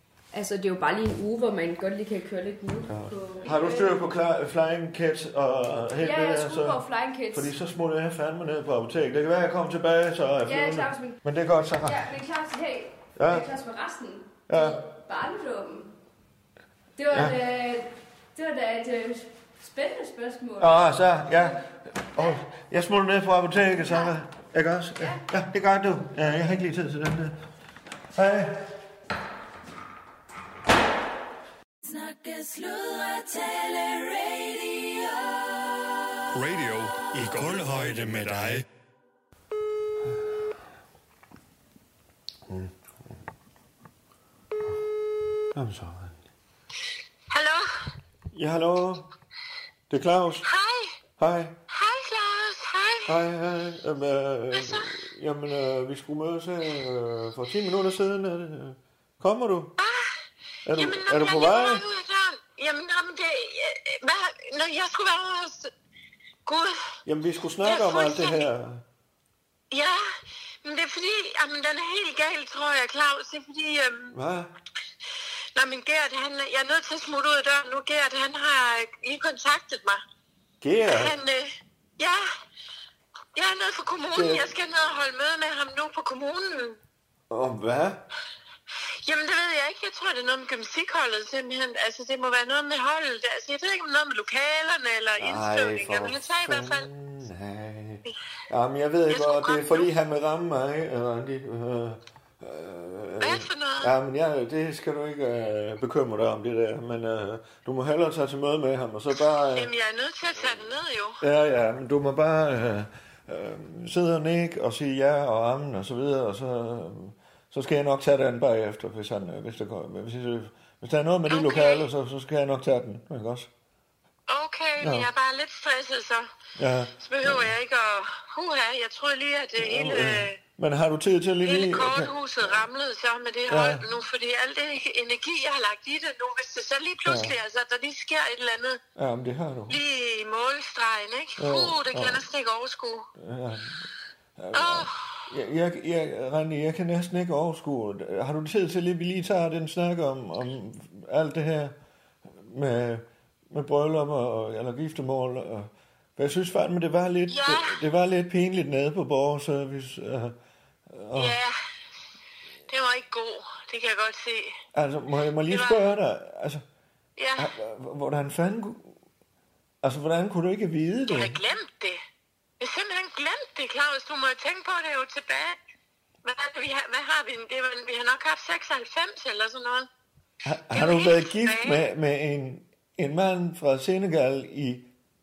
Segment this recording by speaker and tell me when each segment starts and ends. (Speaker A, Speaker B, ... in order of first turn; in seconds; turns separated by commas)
Speaker A: 0.3-4.0, Speaker B: 2.9-12.1, Speaker A: 6.0-7.5, Speaker A: 10.4-11.2, Speaker A: 11.8-15.9, Speaker B: 13.2-13.5, Speaker B: 14.5-14.8, Speaker A: 17.0-21.6, Speaker B: 20.6-27.4, Speaker A: 22.1-22.4, Speaker A: 23.7-24.1, Speaker A: 25.0-25.2, Speaker B: 28.1-28.7, Speaker C: 31.8-35.5, Speaker D: 36.3-38.6, Speaker B: 42.5-43.1, Speaker B: 45.5-46.2, Speaker E: 47.3-47.8, Speaker B: 48.3-49.1, Speaker B: 49.9-50.5, Speaker E: 50.4-50.9, Speaker B: 51.2-51.6, Speaker E: 51.7-53.2, Speaker B: 53.1-59.8, Speaker E: 54.5-54.9, Speaker E: 59.8-60.1, Speaker B: 60.7-61.8, Speaker E: 60.7-65.7, Speaker E: 66.5-66.8, Speaker B: 67.1-68.8, Speaker E: 67.6-68.5, Speaker E: 69.7-70.0, Speaker E: 70.6-74.2, Speaker B: 74.1-74.5, Speaker E: 75.5-80.0, Speaker B: 80.6-81.1, Speaker E: 80.8-82.2, Speaker E: 83.4-86.8, Speaker B: 84.1-84.5, Speaker B: 87.3-88.0, Speaker E: 89.0-96.9, Speaker B: 95.2-109.7, Speaker E: 99.1-99.9, Speaker E: 103.2-103.9, Speaker E: 109.5-111.2, Speaker B: 111.2-123.5, Speaker E: 121.3-121.9, Speaker E: 124.3-126.3, Speaker B: 124.8-125.1, Speaker B: 126.6-127.5, Speaker E: 127.0-130.4, Speaker B: 129.6-132.6, Speaker E: 131.4-138.8, Speaker B: 133.5-133.8, Speaker B: 137.1-137.4, Speaker B: 139.0-139.8, Speaker E: 139.7-143.1, Speaker B: 141.4-142.2, Speaker B: 143.2-143.8, Speaker B: 144.4-151.8, Speaker E: 144.5-145.1, Speaker B: 152.3-160.4, Speaker E: 157.3-157.8, Speaker B: 160.9-161.4, Speaker E: 161.1-161.6, Speaker E: 162.7-164.6, Speaker B: 164.8-166.6, Speaker E: 165.5-165.9, Speaker E: 167.2-167.5, Speaker B: 167.4-168.9, Speaker B: 169.8-171.4, Speaker E: 171.1-172.0, Speaker E: 172.6-175.6, Speaker E: 176.2-179.9, Speaker B: 180.4-184.9, Speaker E: 180.7-181.8